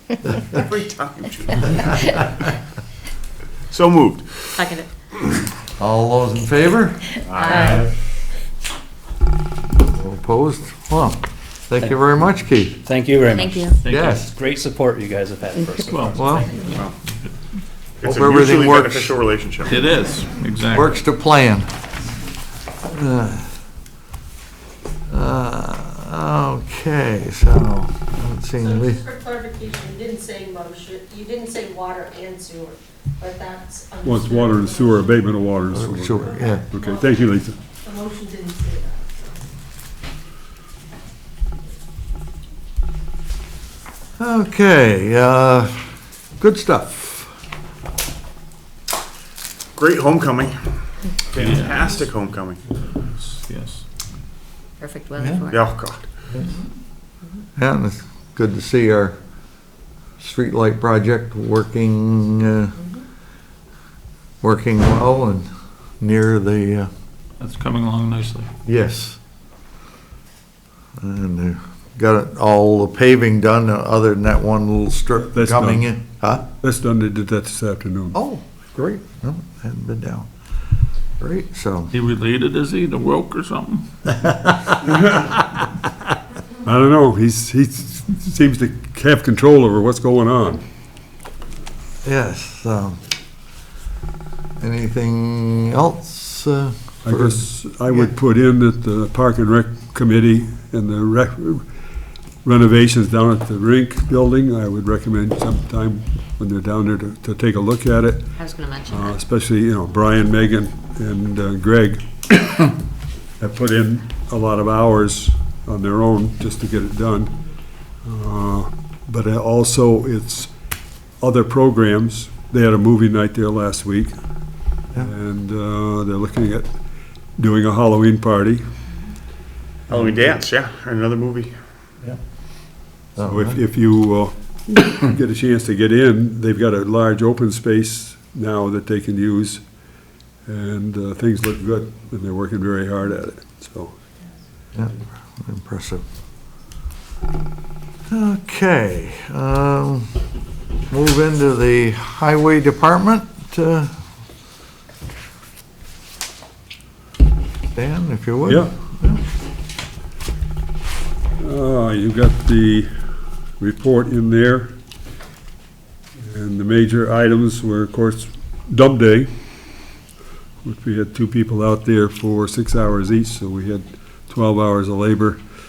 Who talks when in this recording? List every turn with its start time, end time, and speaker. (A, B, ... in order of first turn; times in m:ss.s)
0:00.5-0:02.2 A
0:03.7-0:04.7 A
0:04.6-0:04.9 B
0:05.8-0:07.2 C
0:07.2-0:07.9 A
0:07.4-0:07.9 B
0:09.8-0:12.8 C
0:12.8-0:16.8 D
0:13.3-0:13.8 B
0:13.9-0:14.3 C
0:15.9-0:16.2 E
0:16.2-0:16.5 C
0:16.7-0:17.0 A
0:18.0-0:19.9 A
0:18.0-0:19.2 C
0:19.7-0:20.9 E
0:20.7-0:21.7 C
0:22.8-0:23.5 C
0:25.1-0:29.0 C
0:29.2-0:35.0 F
0:34.0-0:37.6 G
0:35.7-0:36.7 C
0:37.9-0:39.0 F
0:44.2-0:45.9 C
0:46.4-0:47.3 C
0:49.8-0:50.8 A
0:51.3-0:52.6 A
0:51.4-0:51.7 E
0:52.8-0:53.8 E
0:54.8-0:55.7 B
0:55.5-0:56.3 A
0:57.6-0:59.2 C
1:00.2-1:02.8 C
1:04.4-1:05.5 C
1:06.0-1:06.9 C
1:07.4-1:08.5 E
1:08.6-1:09.2 C
1:11.0-1:16.4 C
1:15.3-1:15.9 G
1:16.5-1:18.2 G
1:18.1-1:20.3 C
1:21.2-1:21.9 C
1:21.9-1:23.9 E
1:24.1-1:24.8 C
1:26.6-1:30.6 G
1:32.0-1:33.0 C
1:34.6-1:38.1 C
1:37.1-1:41.7 G
1:42.4-1:48.3 G
1:48.4-1:49.2 B
1:48.8-1:52.0 G
1:53.4-1:57.4 G
1:58.0-2:00.5 G
2:01.2-2:04.1 G
2:05.0-2:06.7 G
2:07.4-2:08.6 G
2:09.9-2:11.5 A
2:13.2-2:13.6 C
2:13.2-2:19.6 G
2:20.5-2:24.0 G
2:24.7-2:26.0 C
2:28.1-2:30.2 C
2:30.9-2:33.9 C
2:37.8-2:39.2 C
2:38.5-2:38.7 G
2:41.4-2:42.9 G
2:43.6-2:44.7 G
2:46.2-2:49.3 G
2:50.6-2:55.4 G